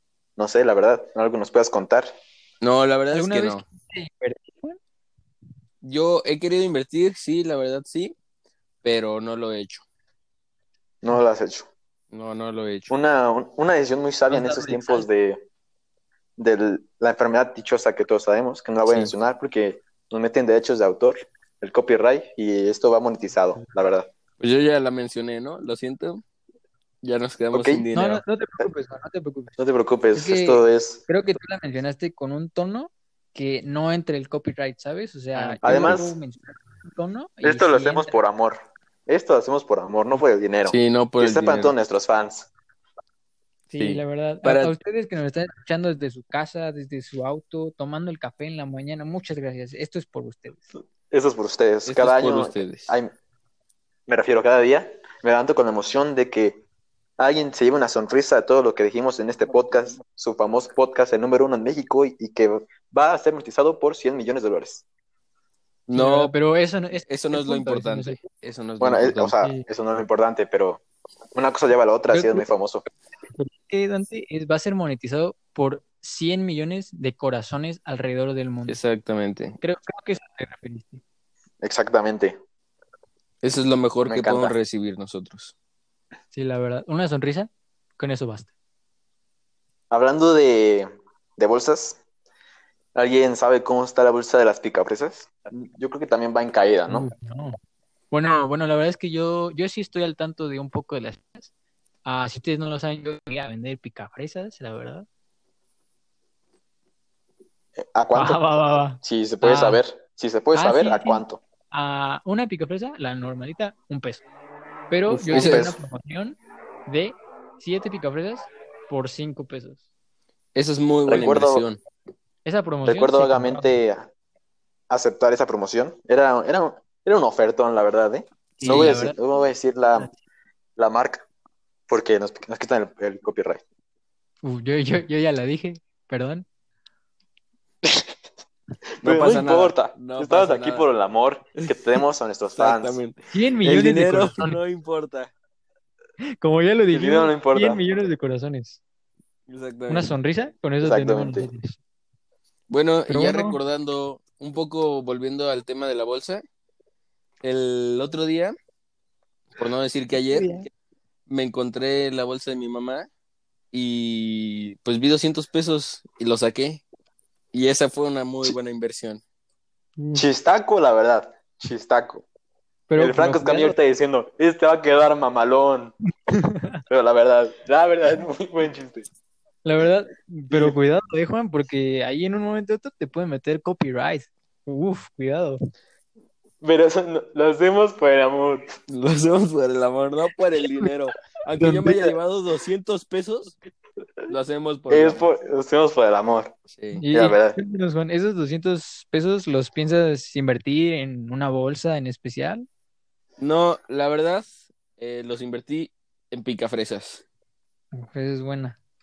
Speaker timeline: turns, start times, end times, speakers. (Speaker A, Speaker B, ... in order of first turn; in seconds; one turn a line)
Speaker A: 0.4-2.1
Speaker B: 2.6-3.6
Speaker C: 3.1-4.8
Speaker B: 5.8-8.1
Speaker B: 8.8-9.8
Speaker A: 11.0-11.7
Speaker B: 12.1-12.9
Speaker A: 12.9-15.4
Speaker C: 14.3-15.1
Speaker A: 16.4-24.1
Speaker B: 18.8-19.1
Speaker B: 24.4-26.2
Speaker B: 27.0-28.2
Speaker A: 27.5-27.8
Speaker C: 27.9-29.6
Speaker A: 29.6-31.0
Speaker C: 30.1-38.2
Speaker B: 35.3-36.0
Speaker A: 35.6-36.1
Speaker A: 37.4-42.5
Speaker B: 40.6-41.7
Speaker C: 43.7-50.6
Speaker B: 43.8-44.7
Speaker A: 51.1-53.1
Speaker B: 51.9-53.0
Speaker A: 54.1-56.6
Speaker A: 57.2-64.8
Speaker B: 65.9-66.3
Speaker C: 65.9-68.2
Speaker B: 67.1-69.3
Speaker A: 68.8-70.8
Speaker A: 71.3-72.8
Speaker C: 72.1-72.5
Speaker C: 73.3-78.8
Speaker B: 78.7-79.6
Speaker C: 79.6-81.0
Speaker A: 81.6-82.3
Speaker B: 83.4-85.5
Speaker A: 84.0-84.5
Speaker C: 86.3-88.5
Speaker A: 89.9-92.0
Speaker A: 92.9-97.1
Speaker C: 96.9-97.5
Speaker C: 98.1-101.5
Speaker C: 102.0-105.0
Speaker A: 107.9-108.4
Speaker C: 108.1-109.8
Speaker A: 109.0-111.4
Speaker C: 110.5-114.2
Speaker C: 114.9-119.8
Speaker B: 115.1-115.7
Speaker A: 115.3-115.8
Speaker B: 120.5-121.8
Speaker A: 121.0-121.7
Speaker C: 122.4-123.7
Speaker A: 122.8-124.1
Speaker A: 124.9-130.1
Speaker C: 128.6-129.2
Speaker A: 130.8-131.2
Speaker A: 131.9-133.6
Speaker C: 134.4-136.5
Speaker A: 139.0-143.0
Speaker B: 139.0-140.9
Speaker B: 142.6-145.3
Speaker C: 143.3-144.6
Speaker C: 146.4-148.8
Speaker A: 146.9-147.8
Speaker B: 149.5-150.1
Speaker C: 149.9-151.8
Speaker A: 150.8-151.5
Speaker B: 152.7-156.4
Speaker C: 153.1-153.6
Speaker B: 157.4-158.5
Speaker B: 159.5-160.6
Speaker C: 160.3-160.7
Speaker B: 161.3-163.1
Speaker B: 163.7-166.8
Speaker B: 167.5-169.2
Speaker C: 170.0-170.2
Speaker A: 170.1-172.2
Speaker C: 172.9-173.8
Speaker A: 172.9-175.9
Speaker C: 176.4-176.8
Speaker A: 176.9-179.1
Speaker C: 179.6-185.6
Speaker A: 180.5-180.7
Speaker A: 186.6-188.7
Speaker B: 188.9-193.6
Speaker A: 191.7-192.1
Speaker B: 194.3-195.2
Speaker A: 194.9-196.5
Speaker B: 196.7-197.0
Speaker C: 196.9-202.6
Speaker A: 197.1-197.6
Speaker B: 203.4-207.2
Speaker C: 207.9-208.8